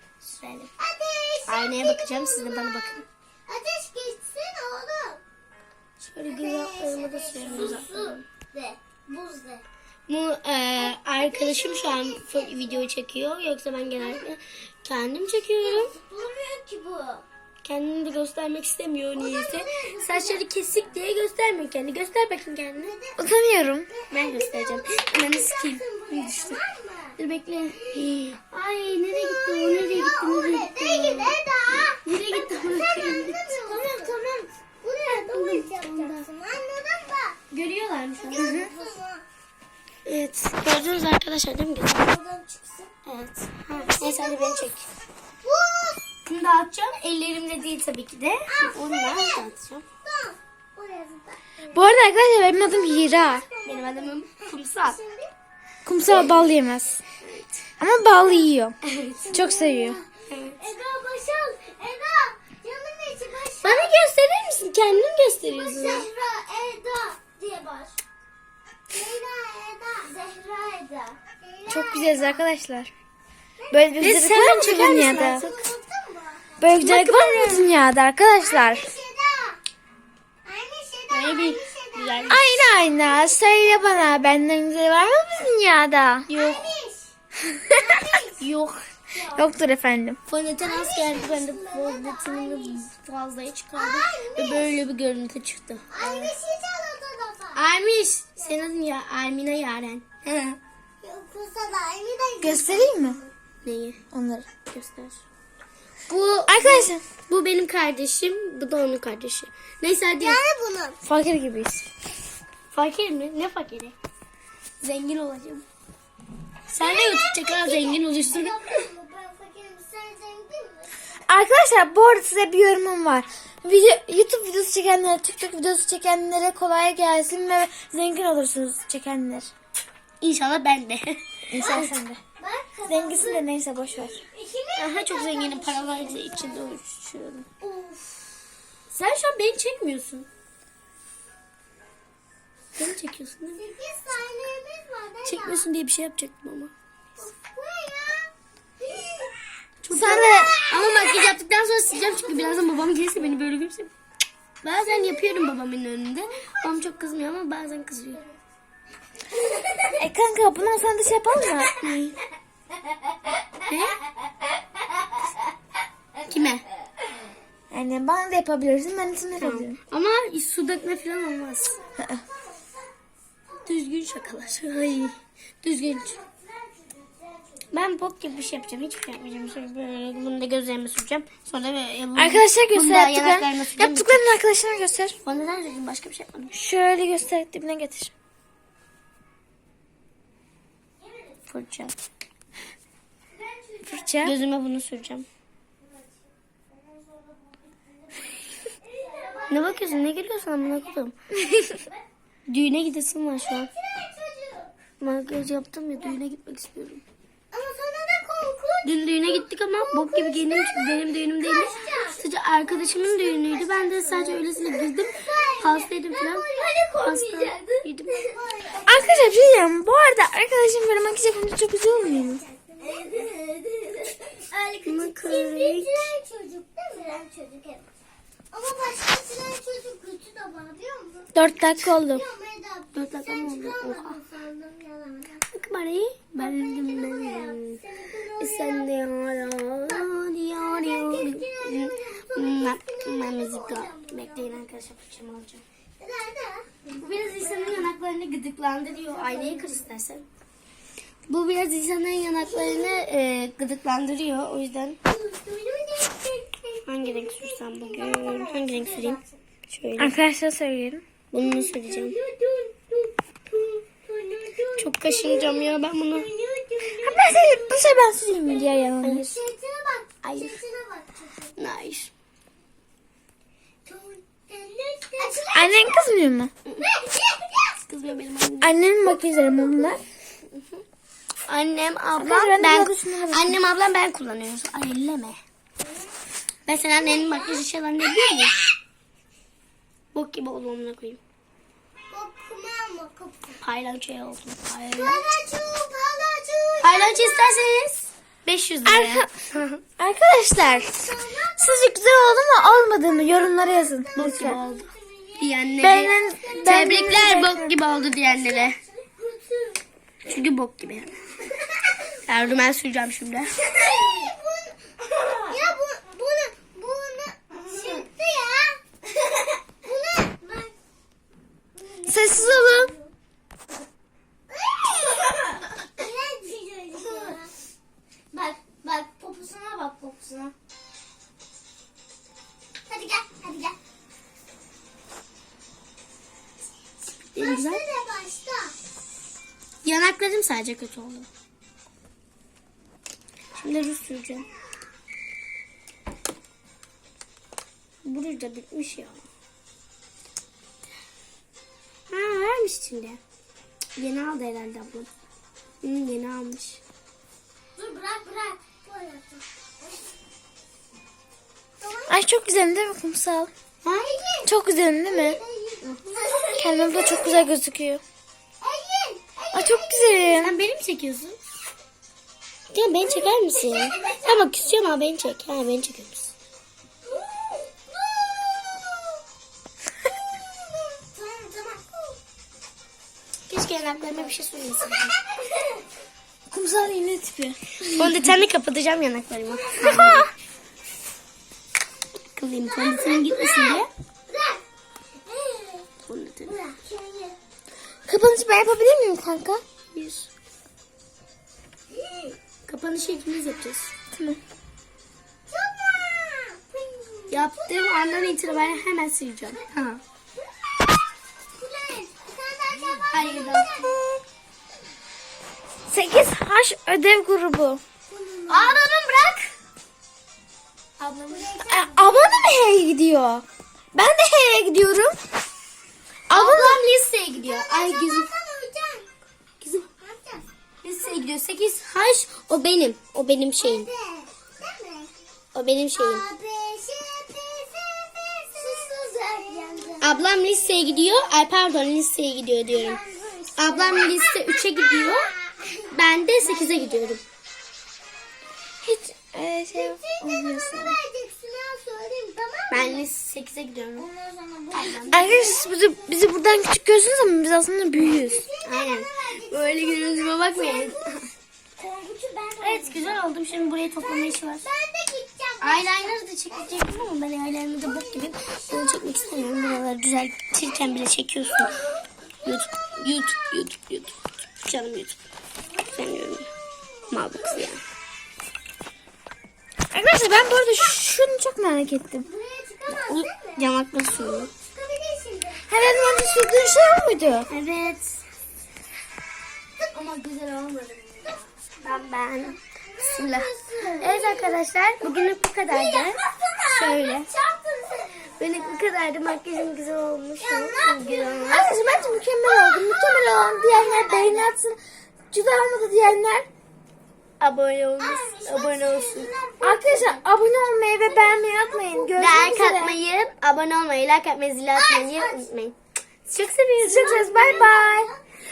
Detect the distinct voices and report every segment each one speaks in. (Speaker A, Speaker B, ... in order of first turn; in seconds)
Speaker A: 0.2-0.7, 1.5-3.0, 6.0-8.2, 10.1-15.9, 17.6-22.9, 24.1-26.6, 27.2-34.5, 35.1-36.2, 37.5-38.7, 40.0-42.1, 43.0-44.9, 46.2-49.8, 53.6-55.0, 58.9-59.2, 60.3-60.6, 63.6-66.1, 74.0-75.6, 76.8-77.7, 81.1-82.5, 86.3-86.6, 88.4-88.8, 90.3-95.8, 97.5-100.6, 103.6-104.0, 104.7-105.2, 106.1-110.4, 112.7-114.0, 114.8-115.6, 116.7-118.8, 130.2-131.9, 134.8-137.5, 138.9-140.3, 142.7-143.6, 145.2-146.7, 149.8-153.9, 154.6-158.2, 161.7-162.2, 163.7-164.0, 166.3-166.6, 169.4-171.8, 173.6-176.2, 177.7-184.3, 185.2-186.6, 191.5-191.9, 194.2-195.2, 199.5-201.2, 202.5-203.7, 205.0-207.0, 208.8-218.3, 222.8-223.6, 224.8-226.1, 232.9-234.2, 235.5-237.8, 238.4-245.6, 246.9-250.2, 251.3-255.0, 256.9-260.1, 261.3-262.1, 264.8-266.3, 269.0-269.4, 270.2-270.6, 271.6-272.1, 277.8-278.7, 281.5-285.4, 286.6-288.6, 290.1-291.2, 293.6-295.3, 296.8-299.8, 304.1-308.8, 310.2-311.2, 312.2-314.0, 315.2-315.5, 327.0-327.4, 328.3-330.5, 337.3-337.8, 339.8-341.3, 343.6-344.5, 348.0-349.2, 352.1-353.2, 354.0-355.1, 355.8-356.8, 363.8-364.2, 365.8-366.5, 370.4-371.4, 372.7-376.3, 383.5-385.2, 387.9-390.3, 392.3-393.9, 396.0-396.5, 399.9-400.3, 402.6-403.9, 407.3-410.0, 413.1-414.0, 418.5-419.5, 421.0-421.7, 426.3-428.3, 429.6-429.9, 430.8-433.9, 435.5-436.2, 440.0-443.0, 443.6-445.3, 445.9-447.2, 452.7-454.1, 454.7-455.3, 458.6-461.2, 462.6-464.6, 465.6-471.8, 472.4-475.2, 475.9-476.5, 477.1-477.8, 482.9-484.5, 487.5-488.2, 489.9-496.2, 496.7-497.3, 498.4-501.7, 507.4-509.3, 512.2-515.7, 516.3-517.2
Speaker B: 0.8-2.9, 3.5-5.2, 6.3-9.6, 10.8-12.8, 15.6-17.2, 19.1-20.4, 22.8-23.3, 23.9-27.2, 27.8-28.1, 29.1-37.4, 38.2-39.2, 41.9-42.9, 43.7-44.7, 45.4-46.0, 48.5-49.5, 50.0-55.3, 56.1-56.4, 59.1-63.9, 65.4-68.0, 68.9-72.4, 73.6-76.7, 78.4-79.6, 80.4-84.2, 86.3-87.1, 87.7-88.4, 89.1-89.5, 90.6-92.9, 93.7-94.8, 95.9-97.6, 101.0-103.3, 110.2-111.0, 116.8-120.9, 131.6-136.8, 137.6-138.5, 143.6-145.7, 147.2-149.4, 149.9-151.3, 151.9-152.7, 172.3-172.7, 175.9-177.4, 193.3-194.3, 197.0-197.6, 198.3-200.9, 201.7-201.9, 203.4-204.7, 207.5-219.6, 221.9-227.8, 228.5-235.5, 236.4-238.9, 239.8-244.6, 246.0-247.9, 248.9-249.9, 252.4-253.0, 255.0-259.3, 261.4-271.5, 273.8-276.0, 276.8-277.8, 279.6-279.9, 285.8-286.1, 287.0-287.6, 292.1-293.6, 294.9-297.7, 300.5-302.5, 304.1-305.8, 306.4-309.8, 313.7-314.8, 315.5-318.8, 319.8-320.7, 321.8-323.1, 325.9-327.5, 332.9-333.7, 337.4-338.8, 357.8-360.0, 361.8-362.2, 364.0-364.5, 365.0-367.5, 368.6-370.5, 373.2-374.7, 377.1-379.2, 380.3-382.2, 385.1-385.8, 392.7-394.6, 395.2-395.9, 396.5-397.4, 401.9-402.4, 405.5-408.8, 411.6-414.0, 418.1-418.9, 421.3-422.5, 427.3-429.1, 430.0-430.4, 433.6-435.1, 435.9-440.3, 442.7-447.2, 449.7-453.1, 454.0-455.9, 458.0-460.9, 461.8-463.2, 464.2-467.0, 467.8-469.9, 476.8-477.4, 482.2-486.2, 492.4-494.6, 495.7-498.9, 500.4-502.3, 503.6-504.5, 508.0-510.3, 511.0-512.7, 514.8-515.5, 516.9-518.2
Speaker C: 23.2-23.9, 38.4-38.7, 51.7-53.4, 55.8-57.0, 57.8-58.8, 59.3-60.0, 71.7-72.9, 73.7-75.5, 76.6-78.9, 82.3-86.3, 89.3-90.2, 96.0-96.3, 102.4-103.2, 104.1-104.5, 106.5-107.0, 111.0-111.9, 121.3-129.5, 131.5-132.2, 132.9-134.2, 149.9-150.6, 159.9-161.9, 167.7-169.8, 172.0-172.2, 182.2-185.2, 186.5-188.1, 193.8-194.3, 218.8-222.4, 231.3-232.2, 260.0-261.0, 267.0-269.3, 275.4-276.5, 278.6-280.0, 282.2-283.6, 298.8-299.3, 300.0-304.6, 305.8-307.7, 322.1-322.9, 362.1-363.5, 364.4-365.4, 366.5-368.0, 369.5-370.6, 386.5-388.3, 389.8-390.3, 398.1-399.6, 404.1-404.4, 415.9-417.8, 421.7-425.1, 426.3-426.8, 448.8-450.9, 455.1-458.4, 479.9-482.2, 485.7-487.5, 501.5-504.8, 505.3-506.5, 509.6-512.9, 516.8-518.1